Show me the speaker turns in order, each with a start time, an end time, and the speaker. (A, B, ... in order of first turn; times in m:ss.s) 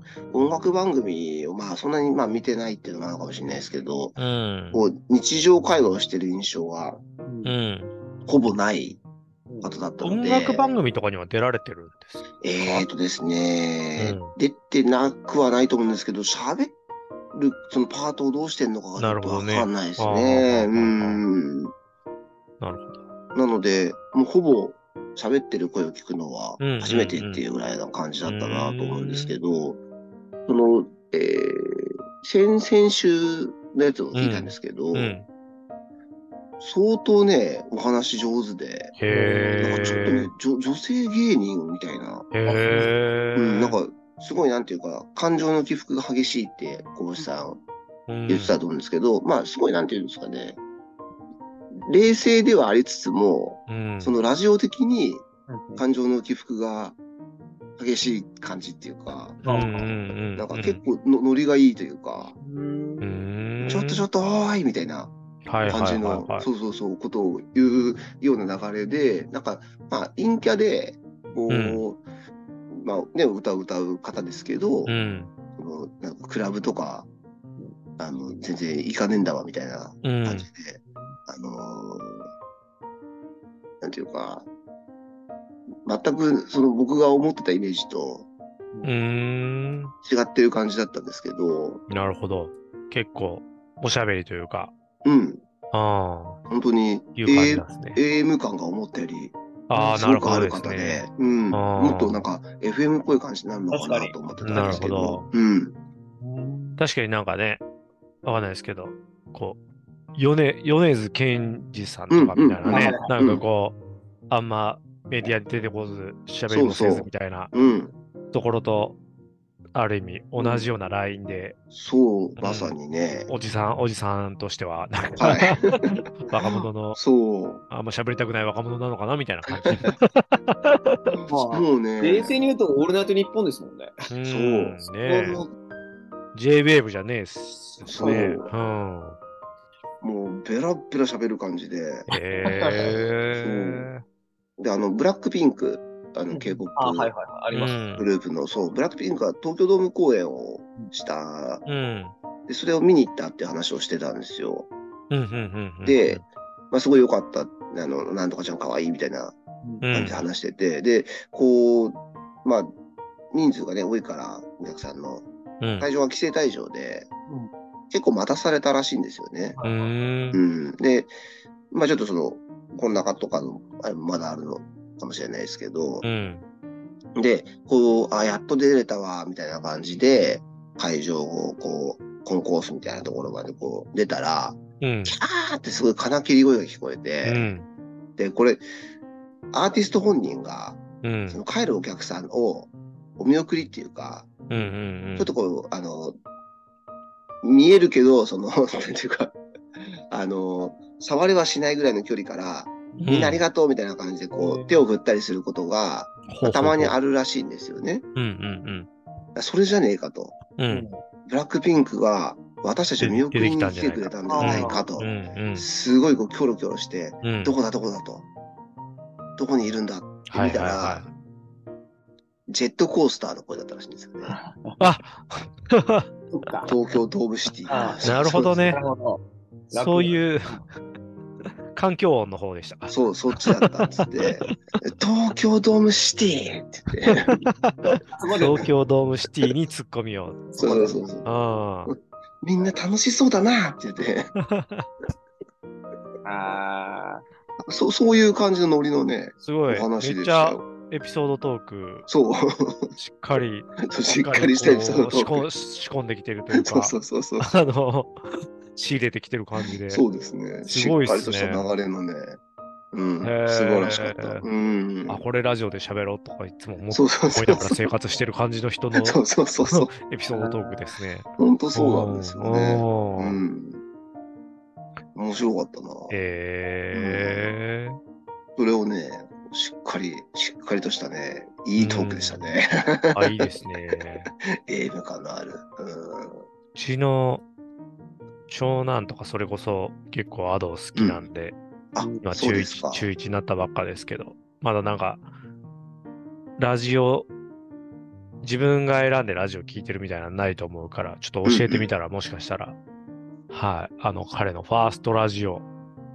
0:00.3-0:04.2 A
0:04.2-0:04.8 B
0:04.7-0:07.0 A
0:07.2-0:07.5 C
0:07.4-0:07.9 B
0:08.2-0:09.0 A
0:09.6-0:10.7 A
0:10.0-0:12.8 B
0:12.4-0:16.7 A
0:14.0-0:14.3 B
0:17.3-0:21.7 A
0:19.0-0:21.2 B
0:22.6-0:23.0 B
0:23.3-0:29.8 A
0:26.6-0:27.4 B
0:28.2-0:29.4 B
0:30.5-0:35.2 A
0:34.1-0:35.3 B
0:36.6-0:39.0 A
0:39.0-0:40.3 B
0:39.1-0:39.6 C
0:39.5-0:42.3 A
0:42.3-0:43.8 B
0:42.4-0:43.0 C
0:43.3-0:47.6 A
0:48.1-0:48.6 B
0:48.3-0:50.6 A
0:51.9-0:55.2 A
0:53.7-0:54.2 B
0:55.5-0:55.8 C
0:55.8-0:57.0 A
0:57.8-0:59.7 A
0:59.4-1:00.8 B
0:59.4-0:59.9 C
1:00.4-1:02.3 A
1:02.4-1:03.2 C
1:03.0-1:04.0 B
1:03.6-1:05.1 A
1:05.4-1:06.5 B
1:05.6-1:12.0 A
1:11.5-1:11.8 B
1:12.7-1:14.9 A
1:14.8-1:15.3 B
1:15.5-1:17.1 A
1:18.0-1:22.2 A
1:20.0-1:20.5 B
1:20.8-1:21.2 C
1:23.8-1:24.5 A
1:25.8-1:28.3 A
1:28.8-1:29.9 B
1:30.0-1:31.8 A
1:31.9-1:34.7 B
1:35.0-1:35.4 A
1:35.7-1:36.4 B
1:36.5-1:45.8 A
1:37.2-1:38.0 B
1:39.7-1:42.2 B
1:43.7-1:45.1 C
1:44.4-1:45.2 B
1:46.2-1:46.8 C
1:46.8-1:47.6 B
1:48.2-1:49.6 B
1:50.2-1:53.8 B
1:52.1-1:53.4 A
1:52.6-1:53.1 C
1:54.3-1:57.5 B
1:56.5-1:57.9 A
1:57.5-1:57.8 C
1:58.3-1:59.0 B
1:59.7-2:01.6 B
2:00.4-2:00.6 A
2:01.7-2:03.3 A
2:02.4-2:02.8 B
2:03.3-2:07.0 B
2:05.2-2:07.6 A
2:07.7-2:11.2 B
2:11.1-2:12.3 A
2:11.3-2:14.0 C
2:14.1-2:15.4 B
2:14.2-2:15.5 A
2:16.3-2:19.2 B
2:17.8-2:18.5 A
2:18.0-2:18.4 C
2:20.0-2:22.1 A
2:22.1-2:24.0 B
2:22.4-2:22.9 C
2:23.4-2:23.9 A
2:24.6-2:27.1 A
2:26.3-2:27.8 C
2:27.5-2:28.1 B
2:28.0-2:31.6 A
2:31.6-2:32.1 B
2:32.5-2:34.7 A
2:35.1-2:36.2 B
2:35.8-2:39.3 A
2:39.8-2:40.2 B
2:39.9-2:42.7 A
2:43.3-2:45.2 A
2:45.6-2:45.9 B
2:45.8-2:47.1 A
2:47.9-2:49.6 A
2:49.5-2:49.9 C
2:49.6-2:50.4 B
2:50.3-2:51.1 A
2:51.7-2:56.0 A
2:56.0-2:56.4 B
2:57.2-3:07.5 A
3:04.8-3:05.2 B
3:07.2-3:07.6 B
3:08.2-3:08.6 A
3:09.5-3:14.3 A
3:11.0-3:11.4 B
3:14.5-3:15.3 B
3:15.2-3:16.1 A
3:17.4-3:28.0 A
3:22.9-3:23.2 C
3:23.0-3:23.4 B
3:24.3-3:24.8 C
3:26.3-3:27.0 B
3:28.1-3:28.9 B
3:29.3-3:30.4 A
3:30.6-3:30.9 B
3:30.7-3:31.0 C
3:31.2-3:38.2 A
3:33.0-3:35.7 B
3:34.3-3:34.9 C
3:37.2-3:37.5 B
3:39.4-3:41.0 A
3:40.3-3:41.1 B
3:42.5-3:44.4 A
3:44.2-3:45.0 C
3:44.8-3:46.1 B
3:46.3-3:46.7 C
3:46.6-3:48.8 A
3:47.7-3:48.0 C
3:48.0-3:48.8 B
3:48.7-3:50.6 C
3:49.8-3:50.6 B
3:51.7-3:54.5 B
3:52.9-3:57.3 A
3:57.0-4:00.4 B
3:58.1-3:58.7 C
4:00.5-4:01.1 C
4:00.6-4:01.3 A
4:01.2-4:01.9 B
4:02.4-4:04.3 A
4:04.4-4:04.9 B
4:06.2-4:07.2 C
4:07.6-4:10.6 A
4:09.4-4:12.1 B
4:12.1-4:12.9 A
4:13.0-4:18.2 B
4:13.9-4:15.5 A
4:16.5-4:17.5 A
4:18.7-4:20.0 B
4:19.9-4:22.4 A
4:20.7-4:21.7 B
4:22.9-4:25.2 A
4:23.2-4:24.4 B
4:25.1-4:33.4 B
4:26.9-4:27.9 A
4:28.9-4:29.9 A
4:30.3-4:30.9 C
4:31.4-4:33.8 A
4:35.1-4:36.2 A
4:36.1-4:38.0 B
4:36.9-4:37.5 A
4:38.6-4:43.5 A
4:41.8-4:42.5 B
4:43.1-4:44.3 B
4:44.5-4:46.4 A
4:46.7-4:47.4 B
4:48.5-4:51.6 B
4:50.9-4:51.3 A
4:51.9-4:53.1 A
4:52.0-4:52.2 C
4:52.2-4:55.2 B
4:56.6-4:57.3 B
4:58.4-5:02.8 B
5:01.4-5:01.9 A
5:03.5-5:05.6 B